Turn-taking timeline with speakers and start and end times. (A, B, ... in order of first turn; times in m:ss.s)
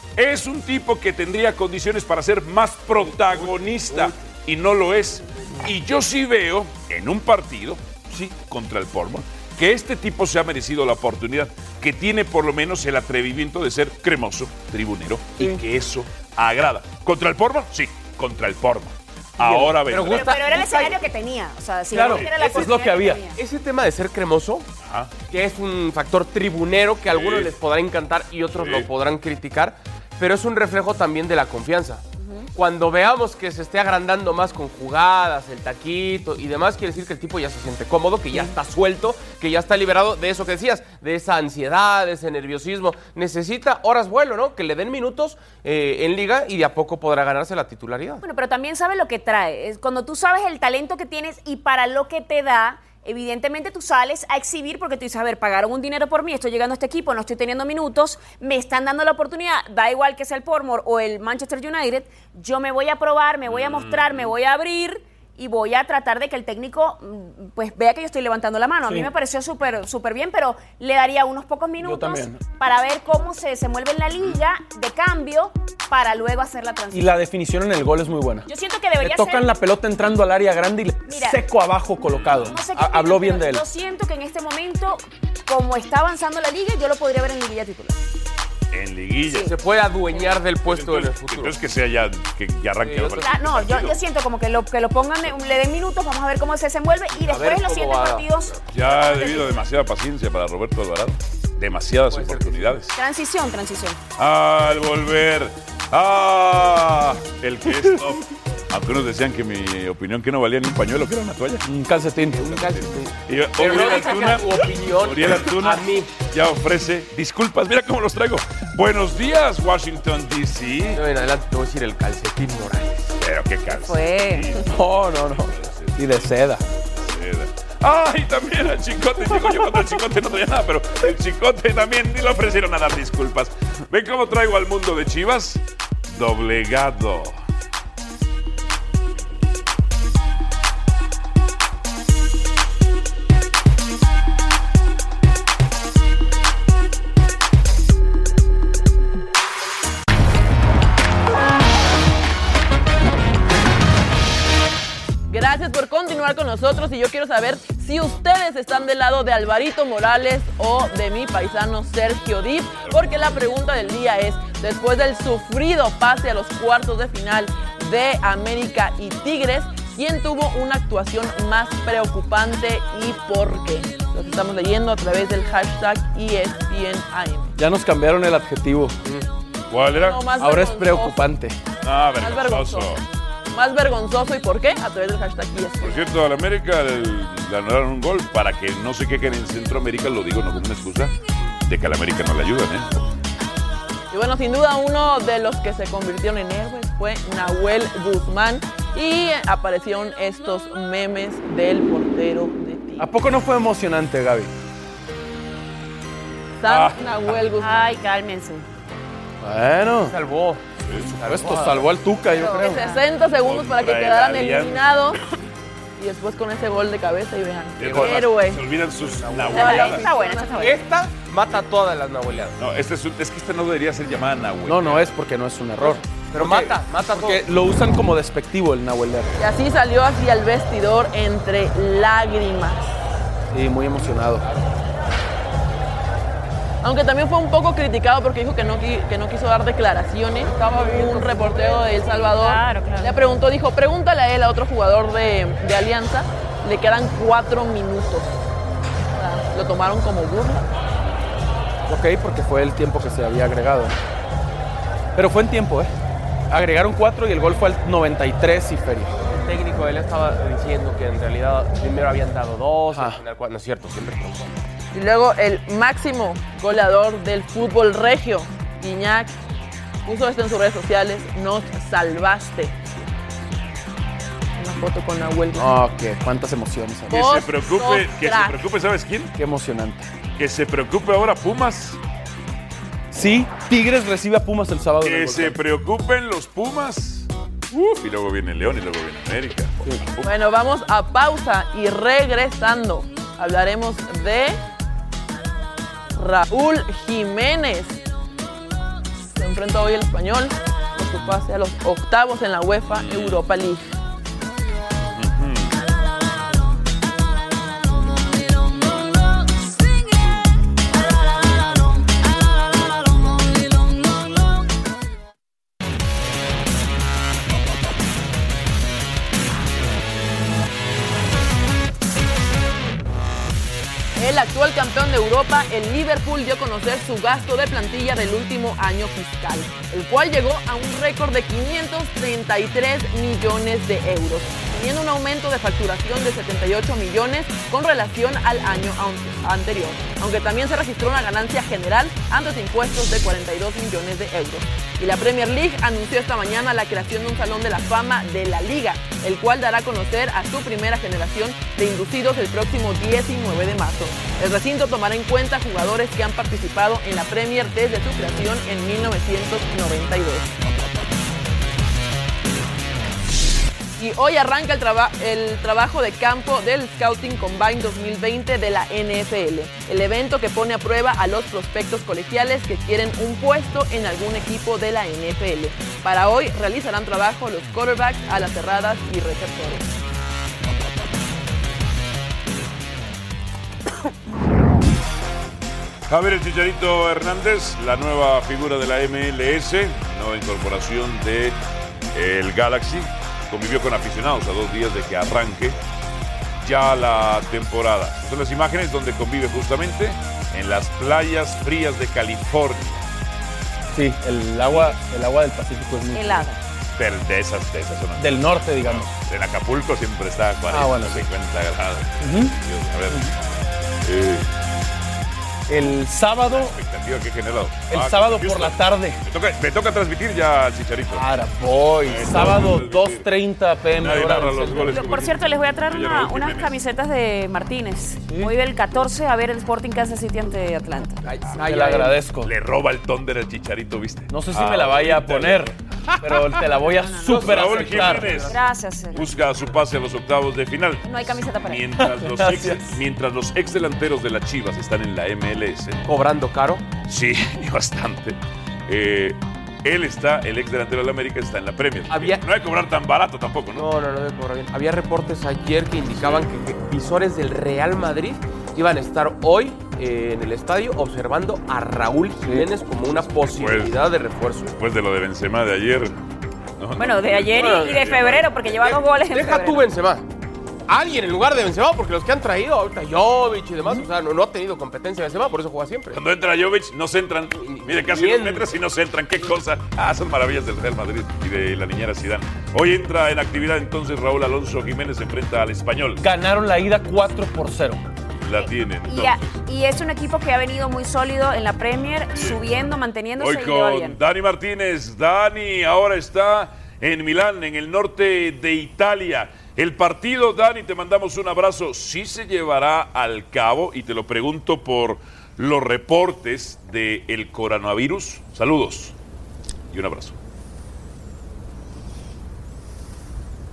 0:00.2-0:20.3 A
0:03.4-0:04.0 B
0:19.5-0:19.7 C
0:19.8-0:21.0 B
0:20.1-0:23.4 D
0:21.9-0:23.3 C
0:22.0-0:22.8 B
0:23.4-0:24.7 B
0:24.8-0:25.1 A
0:25.3-0:32.0 B
0:27.1-0:27.5 A
0:28.5-0:28.9 A
0:32.2-0:32.5 D
0:32.5-0:48.2 B
0:48.2-1:17.1 D
1:03.5-1:04.3 A
1:11.8-1:12.4 C
1:16.9-1:18.5 C
1:18.5-1:19.5 D
1:19.0-1:23.6 C
1:21.1-1:21.4 D
1:22.1-1:22.6 A
1:22.5-1:28.0 D
1:28.7-1:29.5 A
1:29.4-1:31.6 B
1:30.6-1:34.0 A
1:32.8-1:33.3 B
1:33.2-1:39.6 D
1:37.1-1:38.5 B
1:38.7-1:43.0 A
1:42.1-1:42.8 B
1:43.0-1:44.0 D
1:44.2-1:51.7 A
1:51.6-1:52.6 C
1:52.3-1:56.1 B
1:52.4-2:01.0 A
2:00.9-2:03.2 B
2:03.2-2:06.3 A
2:03.7-2:04.6 D
2:04.6-2:06.6 C
2:06.9-2:17.4 A
2:35.3-2:57.5 E
2:57.6-2:59.0 C
2:59.7-3:00.2 A
3:00.0-3:01.2 E
3:00.4-3:01.6 C
3:01.8-3:03.0 A
3:02.2-3:03.0 E
3:03.5-3:06.0 E
3:05.8-3:13.1 A
3:14.1-3:23.1 E
3:23.0-3:24.5 C
3:26.6-3:27.9 E
3:26.6-3:27.4 A
3:27.6-3:28.6 D
3:29.4-3:30.2 C
3:30.0-3:30.6 B
3:30.8-3:31.1 A
3:31.1-3:32.8 C
3:31.1-3:31.9 B
3:32.3-3:33.0 D
3:32.5-3:35.2 E
3:33.4-3:34.9 A
3:36.0-3:38.7 E
3:37.8-3:40.1 A
3:39.3-3:39.7 B
3:39.5-3:40.7 E
3:39.5-3:40.8 D
3:40.6-3:42.6 B
3:42.6-3:45.1 A
3:44.7-3:49.4 C
3:45.8-3:47.4 B
3:49.4-3:52.9 E
3:53.5-3:54.4 C
3:56.8-4:08.3 E
4:00.7-4:03.3 D
4:09.2-4:10.6 E
4:11.9-4:14.0 C
4:15.2-4:15.9 C
4:16.5-4:19.1 C
4:19.3-4:24.6 B
4:22.9-4:23.2 C
4:24.9-4:29.3 E
4:30.0-4:32.8 E
4:34.6-4:35.8 E
4:35.6-4:37.2 C
4:37.1-4:38.6 E
4:37.1-4:39.3 A
4:39.4-4:40.1 C
4:40.4-4:42.0 A
4:43.1-4:45.6 C
4:45.0-4:47.3 A
4:47.7-4:48.0 C
4:48.0-4:50.3 A
4:50.2-4:54.6 E
4:56.2-4:58.0 E
4:59.2-5:04.0 E
5:02.9-5:03.4 A
5:05.1-5:05.8 A
5:24.2-6:00.5 E
6:04.0-6:19.9 E
6:26.1-6:31.6 A
6:32.1-6:35.8 A
6:36.6-6:43.1 A
6:43.9-6:46.5 C
6:46.1-6:46.6 D
6:47.0-6:53.4 A
6:48.2-6:49.1 C
6:50.7-6:51.3 C
6:52.2-6:52.5 C
6:54.0-6:54.5 A
6:55.7-6:56.8 C
6:56.4-7:01.3 A
6:57.9-6:59.2 C
7:01.1-7:05.1 C
7:02.1-7:03.3 A
7:04.0-7:06.7 A
7:04.9-7:11.3 D
7:11.3-7:12.2 B
7:11.6-7:12.5 C
7:12.4-7:15.7 A
7:14.3-7:18.5 C
7:16.8-7:17.6 D
7:17.3-7:18.6 B
7:17.3-7:18.5 A
7:18.5-7:19.2 D
7:19.1-7:26.0 A
7:21.0-7:21.9 D
7:22.0-7:23.0 C
7:26.0-7:26.8 B
7:27.1-7:33.9 A
7:32.1-7:32.4 B
7:33.8-7:44.8 B
7:36.1-7:36.5 A
7:43.6-7:44.0 A
7:44.7-7:46.2 A
7:46.8-7:48.7 A
7:47.0-7:49.8 D
7:47.5-7:48.2 B
7:48.8-7:50.2 B
7:50.9-7:56.2 B
7:56.1-8:06.2 A
7:57.6-7:58.7 B
8:06.2-8:08.0 C
8:08.4-8:09.4 A
8:08.6-8:14.2 D
8:13.4-8:29.1 A
8:29.9-8:30.4 A